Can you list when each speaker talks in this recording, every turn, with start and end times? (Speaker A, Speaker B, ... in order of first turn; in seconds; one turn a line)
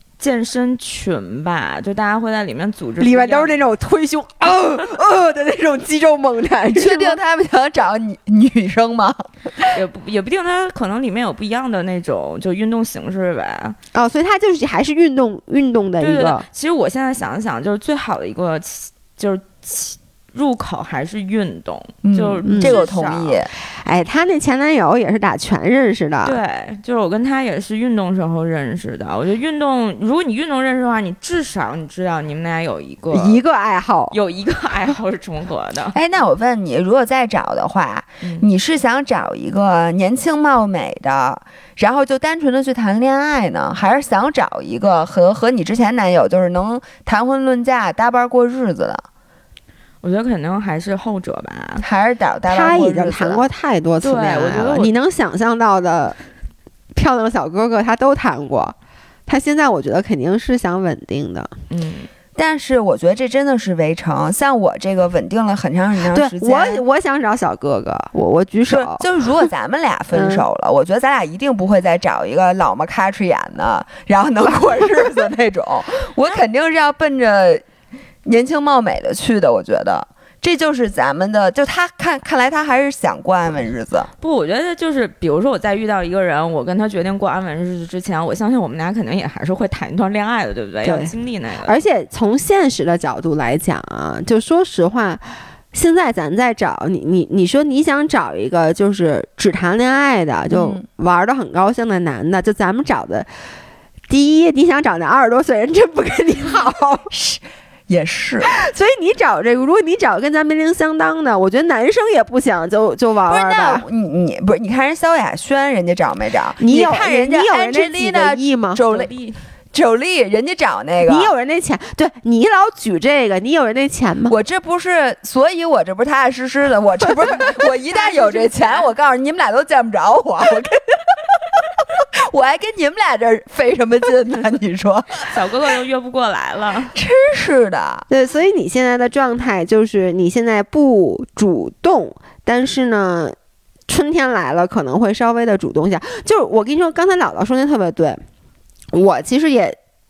Speaker A: 0.2-3.6
Speaker B: 3.0-7.2
Speaker C: 6.7-9.5
Speaker A: 9.7-13.8
Speaker B: 13.9-16.4
Speaker A: 16.0-23.4
Speaker C: 22.0-23.5
Speaker B: 22.4-22.8
Speaker B: 23.6-26.4
Speaker A: 26.2-33.4
Speaker B: 33.1-34.1
Speaker A: 34.1-36.0
Speaker C: 35.9-49.0
Speaker A: 50.0-51.9
Speaker C: 51.8-53.5
Speaker B: 52.5-56.2
Speaker A: 54.0-54.9
Speaker B: 56.9-58.8
Speaker B: 59.3-61.5
Speaker A: 61.7-62.1
Speaker C: 62.4-66.8
Speaker B: 66.1-69.1
Speaker C: 68.7-77.6
Speaker B: 70.1-70.5
Speaker C: 78.2-84.1
Speaker A: 84.2-91.8
Speaker B: 90.8-91.1
Speaker B: 91.7-103.3
Speaker C: 100.5-100.8
Speaker B: 104.1-107.1
Speaker C: 107.1-108.5
Speaker B: 108.4-113.8
Speaker C: 113.3-119.1
Speaker B: 116.6-118.8
Speaker A: 118.8-119.4
Speaker C: 119.7-121.3
Speaker B: 121.0-124.4
Speaker C: 124.3-131.4
Speaker A: 127.4-128.9
Speaker C: 131.9-135.3
Speaker A: 135.3-137.0
Speaker C: 136.9-138.1
Speaker B: 138.1-143.3
Speaker B: 143.9-148.2
Speaker B: 148.9-149.8